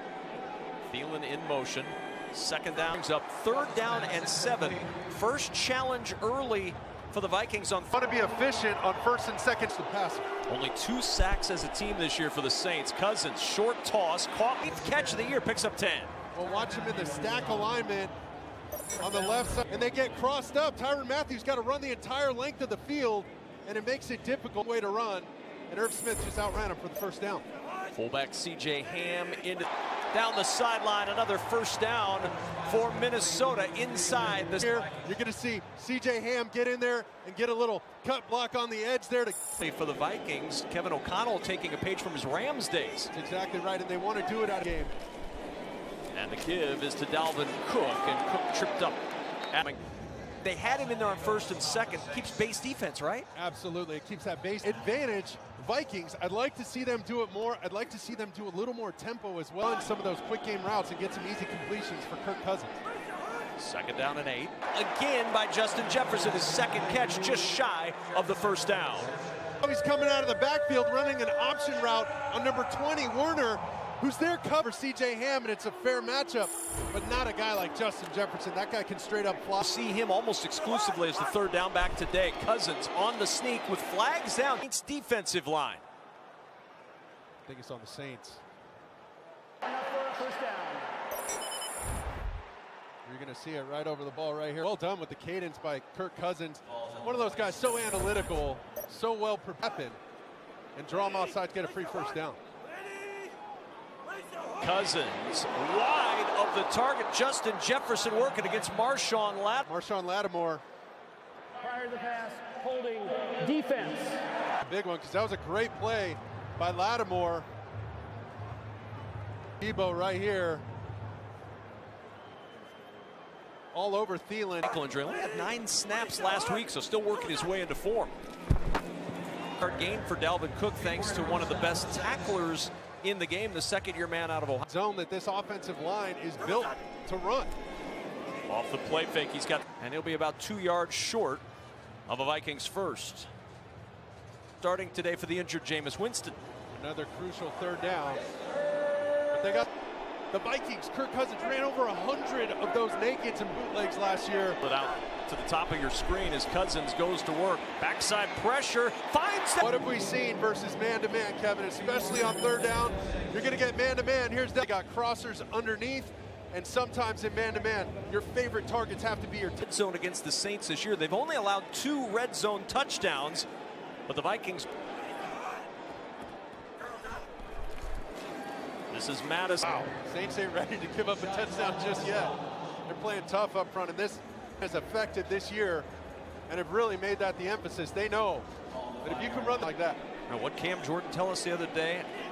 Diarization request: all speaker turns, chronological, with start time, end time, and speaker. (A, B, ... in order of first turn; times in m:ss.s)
0:00.9-0:07.9 A
0:07.9-0:10.3 B
0:10.5-0:16.1 A
0:16.3-0:18.1 B
0:19.0-0:27.4 B
0:27.9-0:34.8 A
0:34.6-0:39.4 B
0:39.6-0:43.1 A
0:43.1-0:44.9 B
0:46.1-0:49.8 A
0:50.4-0:53.3 A
0:53.3-1:02.7 B
1:03.6-1:09.1 A
1:09.6-1:19.6 B
1:19.6-1:25.8 A
1:27.4-1:28.4 B
1:29.6-1:30.8 C
1:33.0-1:40.0 B
1:40.8-1:42.4 B
1:44.6-1:49.6 A
1:49.6-1:50.6 B
1:51.6-1:54.2 C
1:54.6-1:57.5 B
1:59.6-2:00.6 B
2:03.7-2:04.7 B
2:04.6-2:08.1 A
2:09.6-2:14.7 A
2:14.7-2:17.5 B
2:18.5-2:21.4 A
2:22.1-2:23.3 A
2:24.6-2:26.4 A
2:26.7-2:28.2 B
2:29.3-2:29.7 B
2:30.3-2:34.6 B
2:34.6-2:39.7 A
2:39.6-2:49.6 B
2:49.6-2:53.5 A
2:54.0-2:54.7 A
2:58.9-2:59.9 A
2:59.8-3:02.4 B
3:02.9-3:05.9 B
3:06.5-3:08.5 B
3:09.0-3:10.0 B
3:10.3-3:12.1 A